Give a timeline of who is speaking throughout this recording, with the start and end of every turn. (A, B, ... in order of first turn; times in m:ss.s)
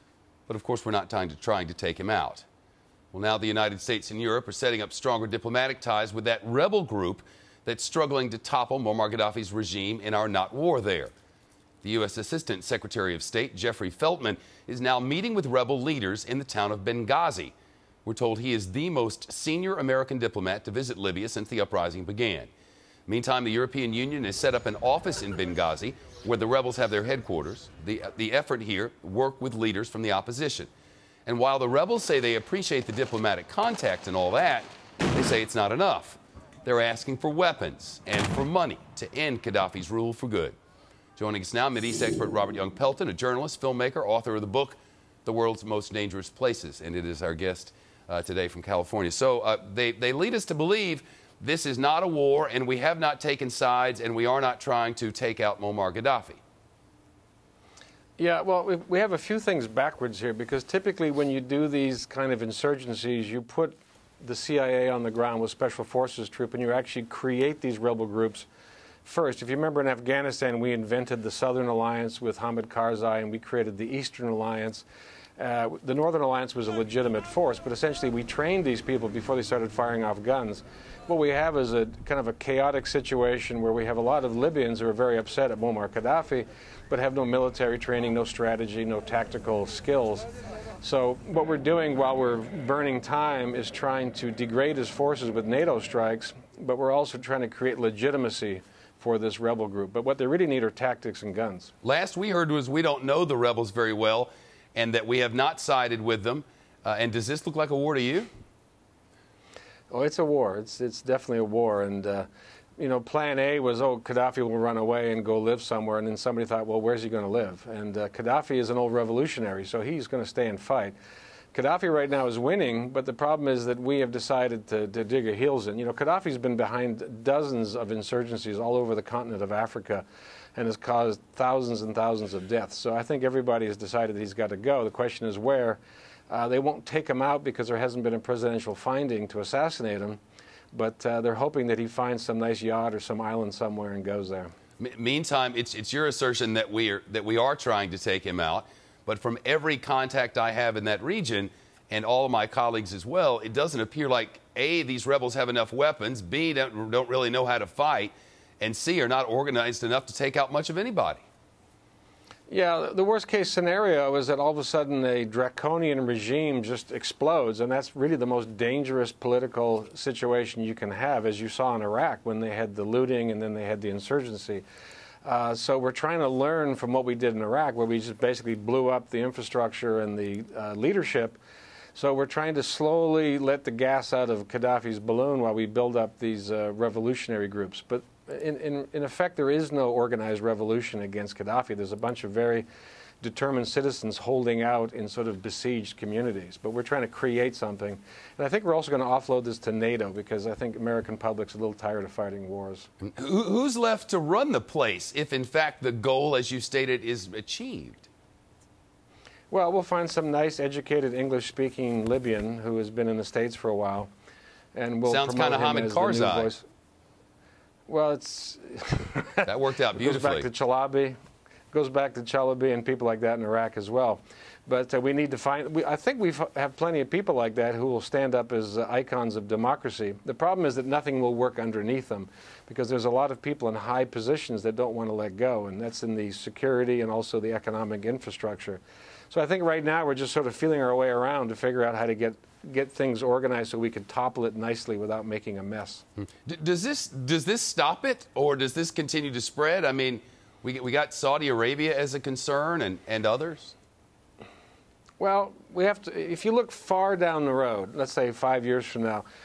0:00.5-0:02.5 A
0:03.1-0:11.1 A
0:11.8-0:22.5 A
0:23.1-0:30.7 A
0:31.3-0:40.6 A
0:41.2-0:56.4 A
0:58.2-1:08.5 B
1:09.0-1:14.9 B
1:15.4-1:30.3 B
1:30.8-1:41.7 B
1:41.8-1:48.3 A
1:49.9-2:01.0 B
2:01.5-2:20.2 B
2:20.7-2:24.5 B
2:24.8-2:41.2 A
2:42.5-2:54.6 B
2:55.2-3:01.4 B
3:02.0-3:12.7 B
3:13.2-3:22.9 B
3:23.0-3:28.1 A
3:29.5-3:34.1 B
3:34.8-3:36.7 B
3:35.1-3:36.5 A
3:37.9-3:41.2 B
3:39.5-3:40.5 A
3:41.7-4:06.0 B
4:06.4-4:13.8 A
4:15.2-4:19.3 B